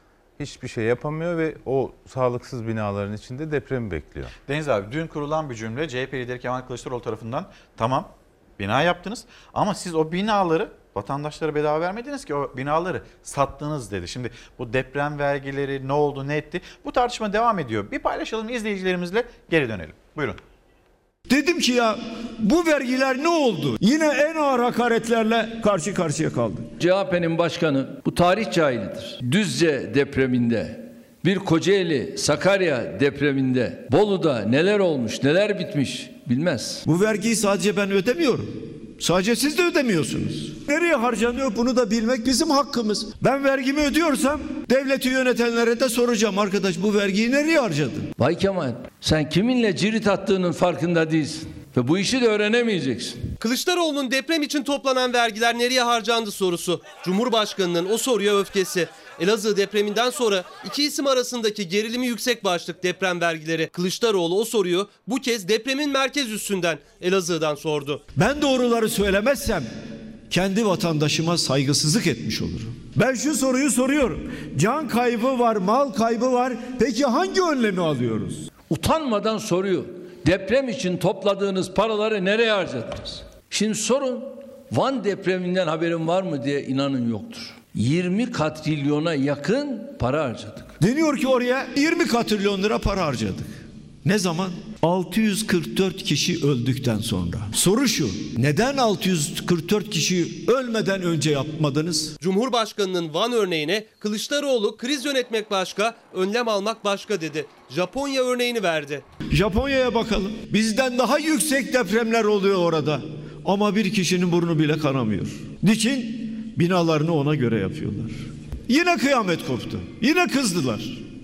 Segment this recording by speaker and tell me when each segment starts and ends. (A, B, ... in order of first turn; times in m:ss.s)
0:00.4-0:04.3 A
0:04.4-0:20.4 B
0:21.3-0:26.7 C
0:26.8-0:36.8 D
0:36.8-0:48.1 C
0:48.2-0:53.2 D
0:53.4-1:08.0 E
1:08.2-1:09.7 C
1:10.3-1:18.5 C
1:18.6-1:30.7 D
1:30.8-1:42.1 C
1:42.2-1:49.0 E
1:49.3-2:01.0 C